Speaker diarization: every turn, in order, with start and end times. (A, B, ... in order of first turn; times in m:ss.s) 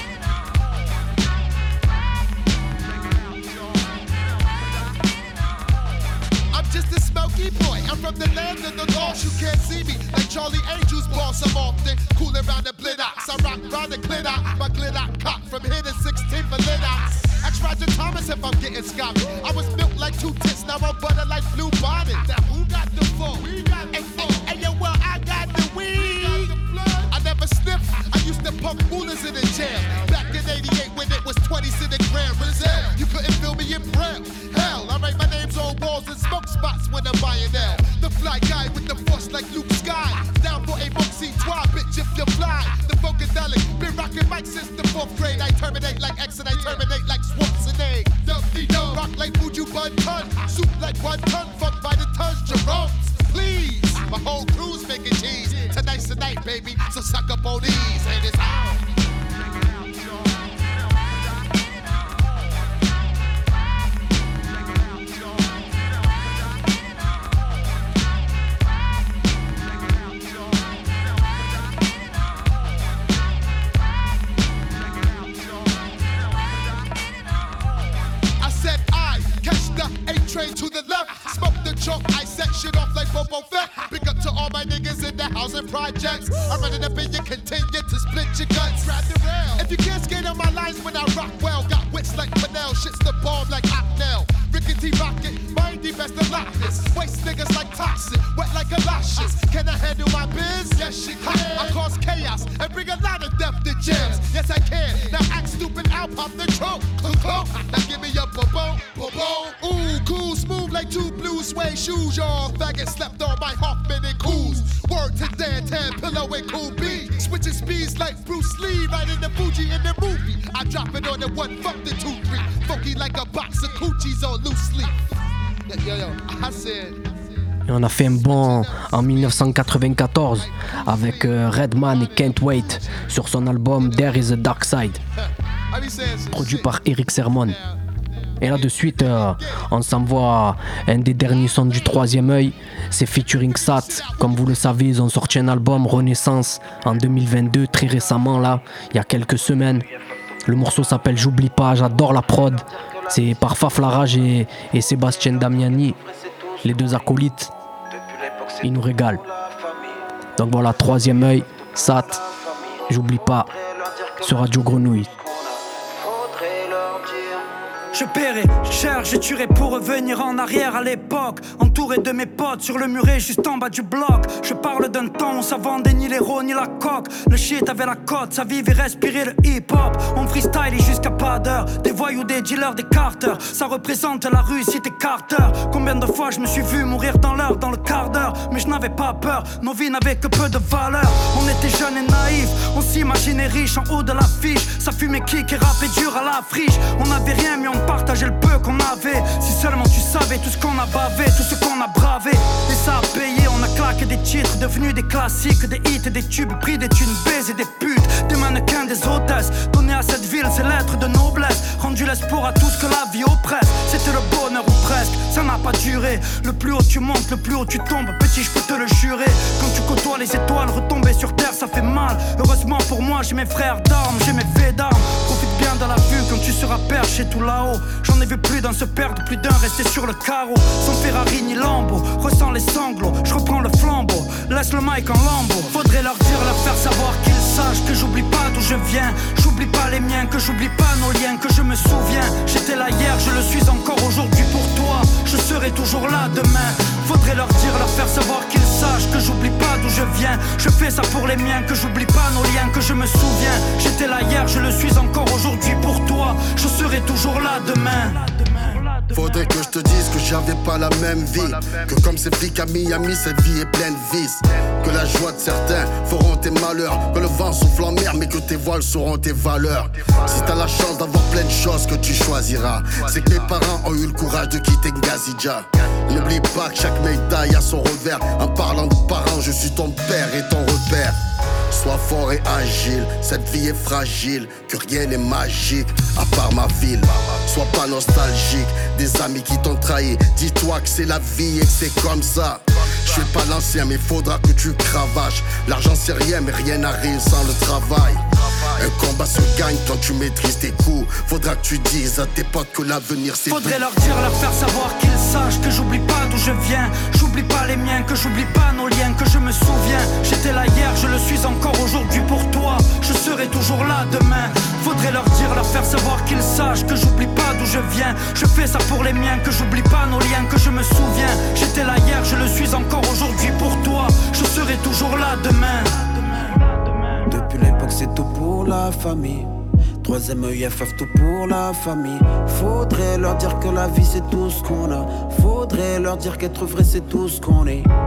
0:06.5-0:58.8 A
1:18.4-2:05.0 A
2:05.7-2:07.1 A
2:07.7-2:15.0 B
2:15.7-2:16.6 A
2:16.3-2:17.6 B
2:18.4-2:29.9 B
2:30.5-2:36.0 B
2:32.8-2:33.2 C
2:35.6-2:37.0 C
2:36.6-2:37.5 B
2:37.9-2:40.0 C
2:38.6-2:39.2 B
2:40.4-2:42.2 B
2:41.6-2:47.5 C
2:42.9-2:43.5 B
2:44.2-2:45.1 B
2:47.9-4:19.8 D
4:19.1-4:41.2 E
4:41.7-4:58.2 E
4:58.8-5:03.8 E
5:03.5-5:27.2 D
5:27.3-5:29.5 C
5:30.0-5:37.9 C